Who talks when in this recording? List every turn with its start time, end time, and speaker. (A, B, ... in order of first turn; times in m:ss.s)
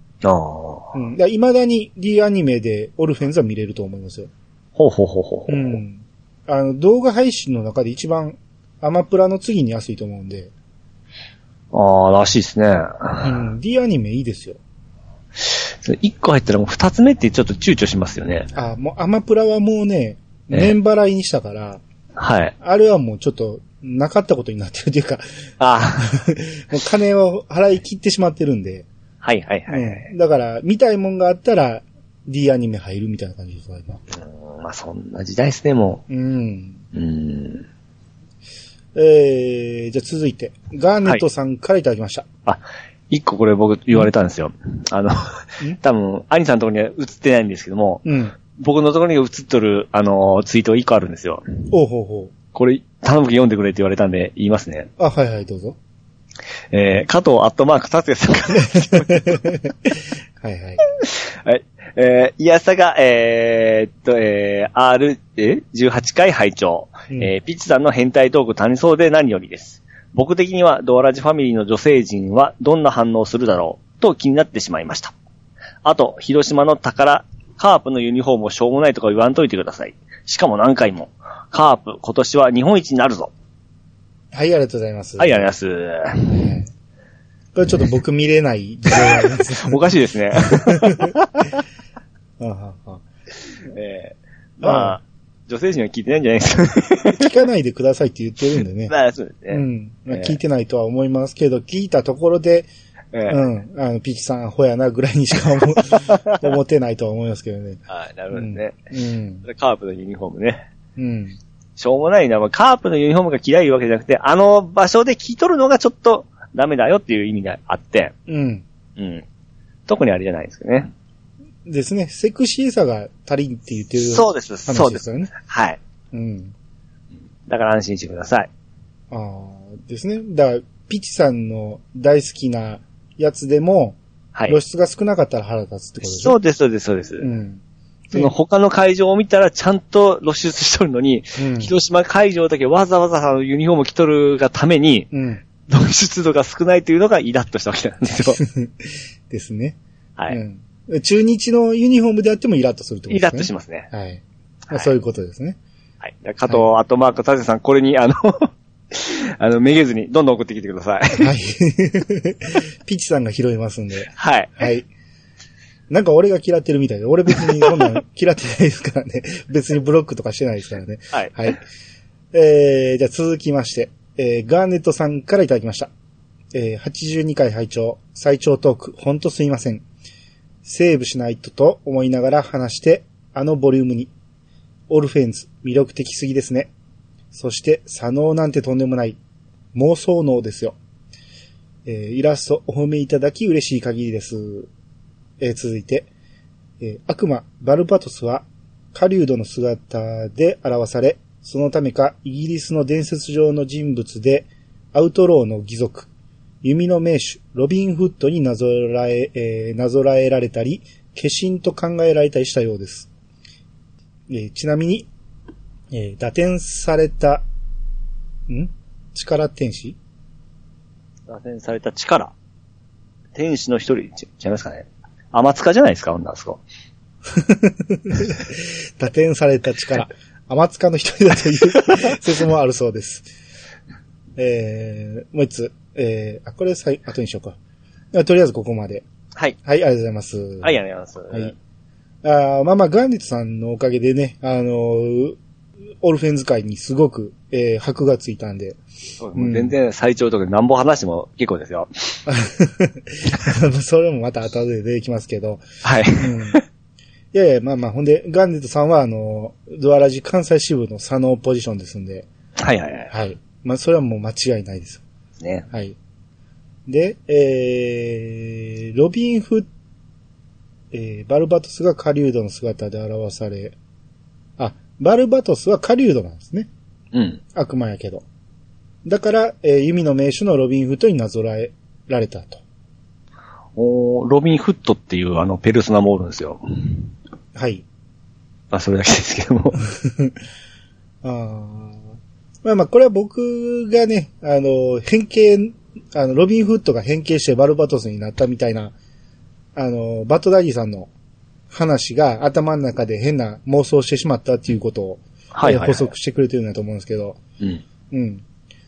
0:00.2-0:01.0 A
0:00.9-0:04.3 B
0:04.8-0:05.8 A
0:05.5-0:10.5 B
0:11.7-0:13.4 A
0:13.2-0:14.6 B
0:15.4-0:18.5 A
0:18.6-0:21.8 B
0:22.2-0:22.5 A
0:22.6-0:25.2 B
0:25.6-0:26.2 A
0:26.0-0:28.9 B
0:29.2-0:30.1 A
0:29.7-0:34.0 B
0:34.2-0:36.0 A
0:36.1-0:36.8 B
0:36.9-0:37.7 A
0:39.0-0:42.3 B
0:42.5-0:51.4 A
0:48.0-0:48.4 B
0:51.7-0:52.3 B
0:52.5-0:54.9 A
0:55.0-0:55.8 B
0:56.7-0:59.4 A
0:58.8-1:00.8 B
1:01.0-1:15.1 A
1:15.8-1:23.3 A
1:24.3-1:25.5 B
1:25.2-1:26.5 A
1:26.3-1:26.7 B
1:27.6-1:29.8 B
1:29.1-1:31.6 A
1:30.4-1:31.1 B
1:32.4-1:33.0 B
1:33.6-1:37.3 A
1:34.6-1:35.0 B
1:37.1-1:38.9 B
1:38.9-1:40.4 A
1:39.5-1:42.7 B
1:43.1-1:43.4 A
1:43.3-1:47.8 B
1:45.9-1:46.4 A
1:47.9-1:48.8 A
1:48.3-1:49.4 B
1:49.4-1:50.6 A
1:51.0-1:51.4 B
1:51.8-1:58.1 A
1:58.3-1:58.6 B
1:59.0-1:59.2 A
1:59.9-2:00.9 A
2:01.7-2:05.3 B
2:04.0-2:05.8 A
2:06.1-2:06.5 B
2:07.5-2:08.5 A
2:09.1-2:14.0 B
2:14.5-2:16.4 B
2:16.0-2:17.3 A
2:17.2-2:18.3 B
2:18.1-2:25.1 A
2:21.4-2:21.7 B
2:25.1-2:25.4 B
2:25.6-2:28.4 A
2:28.4-2:29.8 B
2:30.3-2:35.6 B
2:33.1-2:33.9 A
2:36.0-2:41.3 A
2:41.2-2:44.9 B
2:44.2-2:44.7 A
2:45.9-2:51.6 B
2:52.3-2:55.9 B
2:56.5-2:59.8 B
3:00.6-3:04.1 B
3:04.9-3:06.7 B
3:07.3-3:09.2 B
3:09.7-3:10.8 B
3:11.9-3:14.7 B
3:15.4-3:16.1 B
3:16.8-3:26.1 B
3:26.6-3:33.1 B
3:34.3-3:35.1 B
3:35.9-3:37.4 B
3:38.5-3:40.0 B
3:41.3-3:42.3 A
3:43.4-3:46.6 A
3:47.3-3:53.3 B
3:54.4-3:57.6 B
3:58.1-3:59.1 B
3:59.6-4:00.8 B
4:00.6-4:01.6 A
4:02.2-4:05.4 B
4:06.0-4:08.8 B
4:09.2-4:11.9 A
4:09.4-4:09.7 B
4:12.3-4:15.6 B
4:15.8-4:16.6 A
4:16.2-4:16.6 B
4:17.3-4:22.3 B
4:22.6-4:23.1 A
4:23.1-4:25.0 B
4:25.4-4:25.7 A
4:25.7-4:26.0 B
4:26.9-4:29.7 B
4:30.9-4:33.8 B
4:34.6-4:36.7 B
4:37.1-4:37.4 A
4:37.6-4:38.2 B
4:39.0-4:42.6 B
4:43.8-4:47.1 A
4:47.6-4:47.8 B
4:48.7-4:49.8 A
4:50.0-4:50.3 B
4:51.2-4:52.0 B
4:52.6-4:58.9 B
4:59.8-5:01.1 B
5:01.7-5:07.4 B
5:05.6-5:06.1 A
5:08.1-5:08.4 B